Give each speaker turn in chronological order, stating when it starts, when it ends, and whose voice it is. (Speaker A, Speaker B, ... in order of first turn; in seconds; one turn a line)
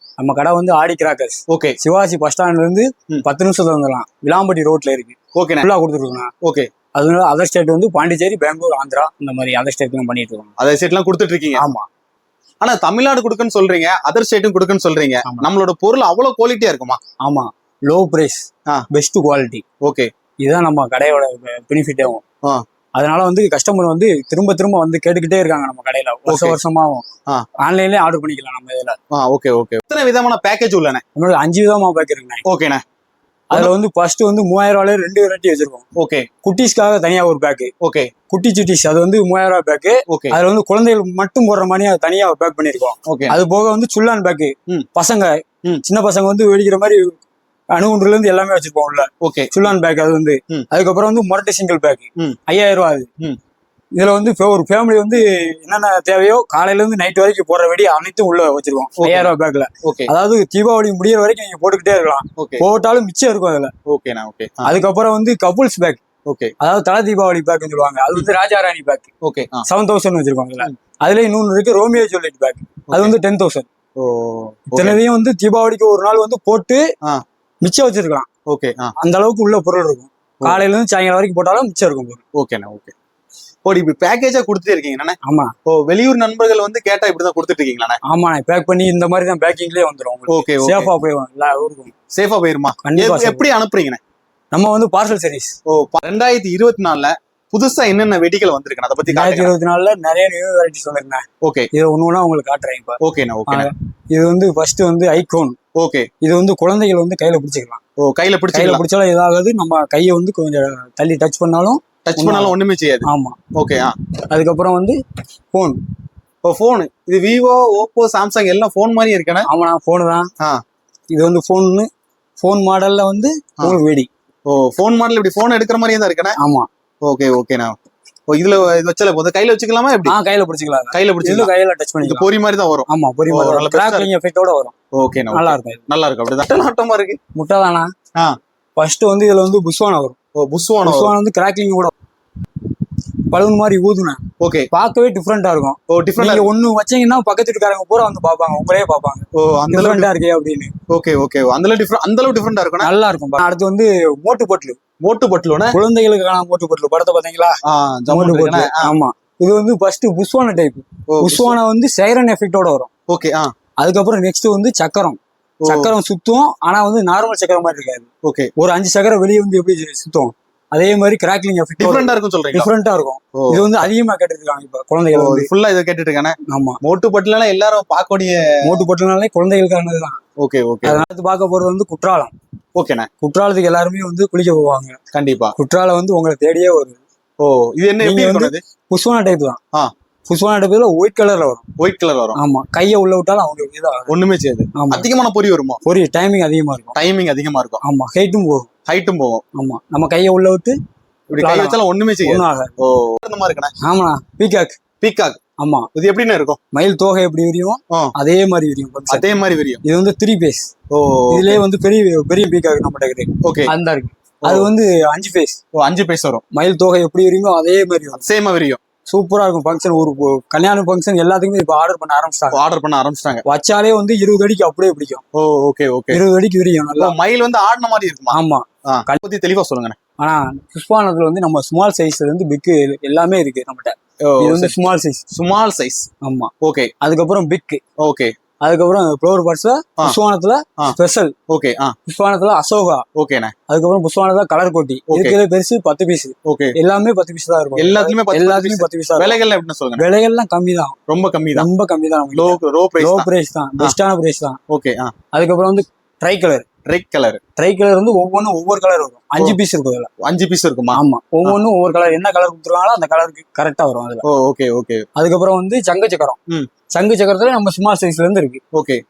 Speaker A: 0.2-6.3
Speaker B: 1.5-1.8
Speaker B: 5.3-5.7
Speaker B: 6.4-6.7
Speaker A: 6.9-10.5
Speaker B: 10.6-11.6
Speaker A: 11.6-11.9
Speaker B: 12.6-17.0
Speaker A: 15.2-15.5
Speaker A: 17.2-19.6
Speaker B: 19.8-20.1
Speaker A: 20.4-22.2
Speaker A: 22.9-27.0
Speaker B: 26.3-26.6
Speaker A: 27.6-29.0
Speaker B: 29.1-31.0
Speaker A: 31.2-32.4
Speaker B: 32.5-32.8
Speaker A: 33.5-35.8
Speaker B: 36.0-36.3
Speaker A: 36.4-37.7
Speaker B: 37.8-38.1
Speaker A: 38.3-47.2
Speaker B: 40.1-40.4
Speaker B: 43.0-43.4
Speaker A: 47.7-53.1
Speaker B: 49.2-49.5
Speaker A: 53.9-63.7
Speaker B: 59.0-60.1
Speaker B: 62.4-62.6
Speaker B: 63.9-64.8
Speaker A: 64.7-66.0
Speaker B: 66.2-66.5
Speaker A: 66.6-69.1
Speaker B: 69.2-69.7
Speaker A: 69.7-73.7
Speaker B: 72.9-73.2
Speaker B: 74.0-75.0
Speaker A: 74.7-76.8
Speaker A: 77.6-78.3
Speaker B: 78.5-78.9
Speaker A: 79.0-82.2
Speaker B: 82.4-82.9
Speaker B: 83.7-88.0
Speaker A: 85.2-85.5
Speaker A: 88.0-91.9
Speaker B: 90.3-90.9
Speaker B: 92.1-94.0
Speaker A: 92.8-93.5
Speaker A: 94.5-95.5
Speaker B: 95.7-99.5
Speaker A: 99.1-105.6
Speaker B: 101.4-101.7
Speaker B: 103.0-103.7
Speaker B: 105.8-106.1
Speaker A: 106.2-107.8
Speaker B: 108.0-108.8
Speaker A: 108.5-112.5
Speaker B: 112.0-114.0
Speaker A: 113.0-113.4
Speaker A: 114.3-115.0
Speaker A: 115.5-115.8
Speaker B: 116.4-119.5
Speaker A: 119.5-120.3
Speaker A: 121.1-121.9
Speaker A: 122.4-124.1
Speaker B: 124.5-126.4
Speaker A: 126.4-126.7
Speaker B: 127.0-127.7
Speaker B: 128.3-130.1
Speaker A: 130.1-132.3
Speaker B: 130.9-131.5
Speaker B: 132.0-134.1
Speaker A: 132.9-134.7
Speaker B: 134.9-137.2
Speaker A: 135.3-135.8
Speaker A: 137.3-137.9
Speaker A: 138.8-140.2
Speaker B: 140.4-141.2
Speaker A: 140.8-141.9
Speaker A: 143.3-150.7
Speaker B: 144.4-144.7
Speaker B: 145.9-146.5
Speaker B: 149.3-150.1
Speaker B: 150.9-152.9
Speaker A: 152.8-154.8
Speaker B: 155.0-155.8
Speaker A: 155.7-157.6
Speaker B: 157.7-158.9
Speaker A: 158.1-162.9
Speaker B: 161.1-161.6
Speaker B: 163.1-163.5
Speaker A: 163.8-175.5
Speaker B: 165.6-165.9
Speaker B: 168.2-168.5
Speaker B: 171.8-172.7
Speaker B: 173.4-173.7
Speaker B: 175.1-178.8
Speaker A: 176.5-176.8
Speaker A: 178.6-180.2
Speaker B: 180.4-181.0
Speaker A: 180.8-182.3
Speaker B: 182.8-183.1
Speaker A: 183.2-185.0
Speaker B: 185.1-185.6
Speaker A: 185.6-187.0
Speaker B: 187.4-188.6
Speaker A: 188.0-189.6
Speaker A: 190.3-191.6
Speaker B: 191.8-192.4
Speaker A: 192.4-194.2
Speaker B: 194.1-195.8
Speaker A: 194.8-195.1
Speaker A: 195.8-196.9
Speaker B: 196.9-197.8
Speaker A: 197.8-198.7
Speaker B: 198.9-199.4
Speaker A: 199.6-200.8
Speaker B: 201.3-203.7
Speaker A: 201.4-202.7
Speaker A: 203.8-204.8
Speaker B: 205.0-205.4
Speaker A: 205.6-205.9
Speaker B: 205.9-206.6
Speaker A: 206.7-209.3
Speaker B: 209.1-209.8
Speaker A: 209.8-210.7
Speaker B: 210.9-211.6
Speaker A: 211.3-215.6
Speaker B: 213.4-213.7
Speaker B: 214.4-214.7
Speaker B: 215.8-216.4
Speaker A: 216.5-218.2
Speaker B: 218.2-218.8
Speaker A: 219.1-222.6
Speaker B: 222.5-223.4
Speaker A: 223.4-225.2
Speaker B: 225.3-226.2
Speaker A: 226.1-227.2
Speaker B: 226.9-228.4
Speaker A: 228.3-229.2
Speaker B: 228.9-230.0
Speaker A: 230.2-235.2
Speaker B: 234.2-234.8
Speaker B: 235.3-236.1
Speaker A: 236.2-237.8
Speaker B: 236.6-236.9
Speaker B: 238.0-238.3
Speaker A: 238.6-241.3
Speaker B: 241.5-241.9
Speaker A: 242.1-243.1
Speaker B: 243.2-243.5
Speaker A: 243.7-249.4
Speaker B: 245.1-245.4
Speaker B: 246.5-246.8
Speaker B: 247.8-250.1
Speaker A: 250.0-251.0
Speaker B: 251.1-251.7
Speaker A: 251.6-254.6
Speaker B: 252.3-253.3
Speaker B: 254.7-255.1
Speaker A: 255.3-256.7
Speaker B: 256.9-257.4
Speaker A: 257.6-260.1
Speaker B: 260.2-261.6
Speaker A: 260.9-264.2
Speaker B: 264.2-265.1
Speaker A: 265.2-266.4
Speaker A: 266.9-268.6
Speaker B: 268.7-269.0